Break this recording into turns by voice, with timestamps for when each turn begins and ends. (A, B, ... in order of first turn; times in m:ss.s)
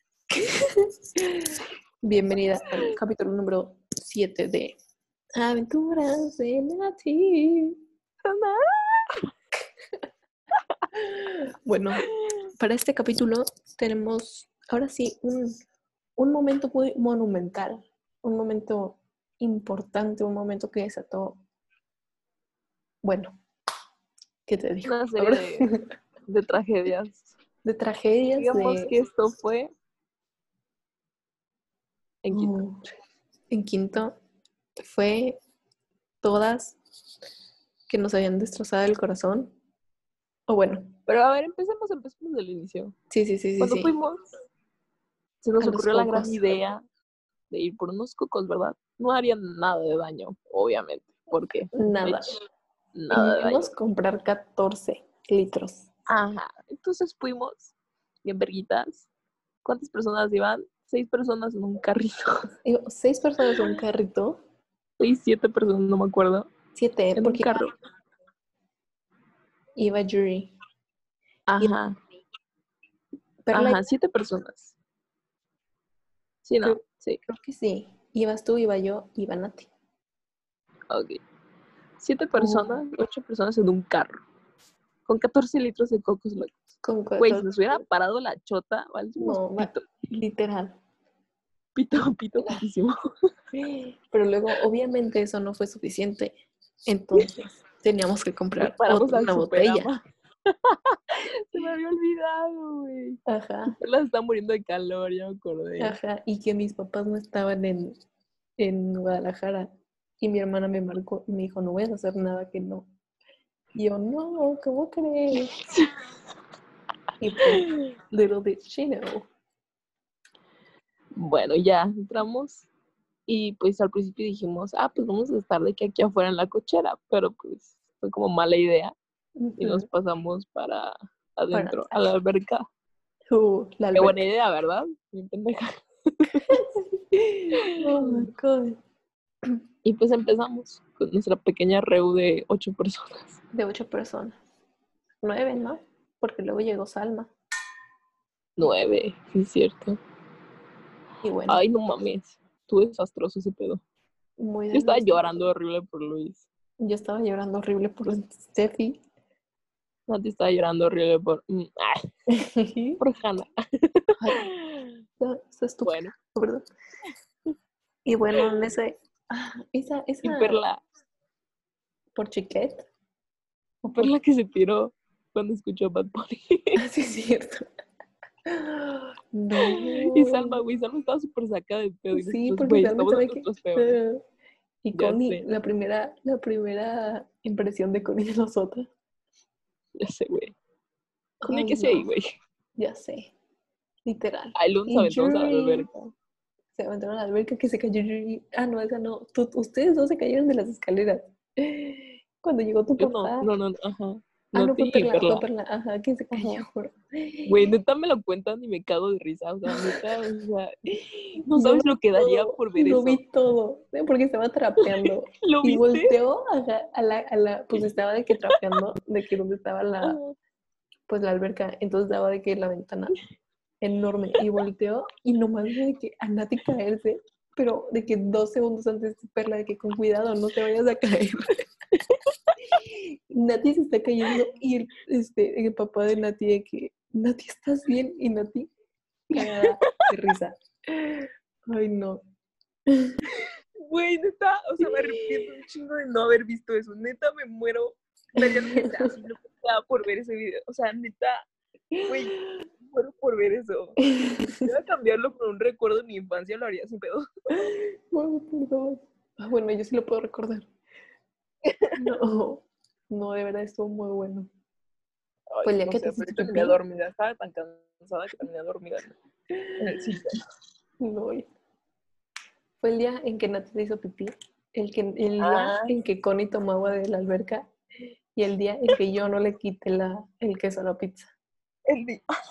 0:02.0-0:04.7 A
0:05.4-0:07.8 A
0:08.2-0:09.2 B
0:11.6-0:12.0 A
0:12.6-0:15.5 A
0:16.2-0:21.4 A
0:23.0-0:23.3 A
0:24.5-0:25.8 A
0:24.8-0:25.7 B
0:26.3-0:27.3 B
0:27.6-0:28.9 A
0:28.4-0:29.7 B
0:32.2-0:32.6 B
0:32.3-0:32.8 A
0:33.5-0:34.2 A
0:34.8-0:35.4 A
0:36.2-0:36.8 A
0:37.9-0:39.5 A
0:40.5-0:40.9 A
0:41.1-0:42.9 B
0:43.1-0:43.9 A
0:43.6-0:44.2 B
0:45.4-0:46.8 B
0:45.6-0:46.5 A
0:47.5-0:52.3 B
0:51.7-0:52.3 A
0:52.9-0:53.7 B
0:53.1-0:55.9 A
0:56.1-0:59.1 B
0:59.6-1:02.5 B
1:02.6-1:04.4 A
1:05.0-1:06.5 B
1:06.7-1:07.7 A
1:07.2-1:07.7 B
1:09.8-1:10.5 A
1:11.5-1:12.0 B
1:13.4-1:13.8 A
1:13.5-1:14.7 B
1:16.4-1:17.2 B
1:16.6-1:19.7 A
1:20.9-1:21.2 B
1:22.0-1:24.2 B
1:22.3-1:22.8 A
1:25.0-1:26.6 B
1:26.8-1:27.5 A
1:27.2-1:29.9 B
1:29.2-1:30.8 A
1:31.8-1:32.9 B
1:33.5-1:39.9 A
1:38.6-1:46.0 B
1:43.3-1:43.8 A
1:45.8-1:48.0 A
1:48.6-1:52.9 A
1:53.7-1:55.5 A
1:57.2-1:59.3 A
2:01.2-2:02.7 B
2:03.3-2:08.9 B
2:09.4-2:09.8 A
2:09.6-2:12.6 B
2:11.5-2:12.1 A
2:13.3-2:14.2 A
2:13.9-2:16.6 B
2:16.5-2:18.8 A
2:19.8-2:23.4 B
2:23.5-2:24.4 A
2:25.2-2:27.3 A
2:28.6-2:30.0 B
2:31.2-2:31.6 A
2:31.5-2:33.8 B
2:34.4-2:35.3 A
2:34.7-2:36.4 B
2:36.8-2:39.0 A
2:40.1-2:42.0 B
2:42.4-2:43.0 A
2:43.0-2:44.9 B
2:44.2-2:44.4 A
2:45.2-2:46.6 A
2:45.8-2:46.1 B
2:48.0-2:50.6 A
2:50.2-2:50.8 B
2:52.1-2:52.9 A
2:53.8-2:54.1 A
2:54.0-2:56.8 B
2:56.8-2:57.7 A
2:58.5-3:00.6 A
2:59.7-3:04.0 B
3:02.1-3:04.2 A
3:04.8-3:08.9 A
3:04.9-3:05.4 B
3:10.0-3:10.5 B
3:11.4-3:12.1 A
3:11.5-3:12.3 B
3:12.8-3:13.3 A
3:14.0-3:15.8 A
3:14.5-3:16.1 B
3:16.7-3:23.5 A
3:23.0-3:25.4 B
3:24.5-3:27.7 A
3:26.3-3:26.6 B
3:27.5-3:33.2 B
3:29.7-3:30.0 A
3:31.5-3:40.2 A
3:34.8-3:36.2 B
3:40.0-3:40.4 B
3:41.1-3:43.2 A
3:43.8-3:51.5 A
3:52.8-3:58.7 A
3:59.3-4:02.2 A
3:59.4-3:59.6 B
4:03.8-4:11.4 B
4:08.4-4:09.0 A
4:12.0-4:14.0 B
4:14.0-4:14.6 A
4:14.6-4:17.2 B
4:17.5-4:20.7 A
4:22.0-4:24.5 A
4:25.5-4:29.2 B
4:25.6-4:26.8 A
4:29.6-4:30.0 A
4:29.8-4:30.4 B
4:31.0-4:31.5 A
4:32.8-4:37.7 A
4:35.4-4:35.9 B
4:38.4-4:41.3 A
4:41.9-4:42.2 B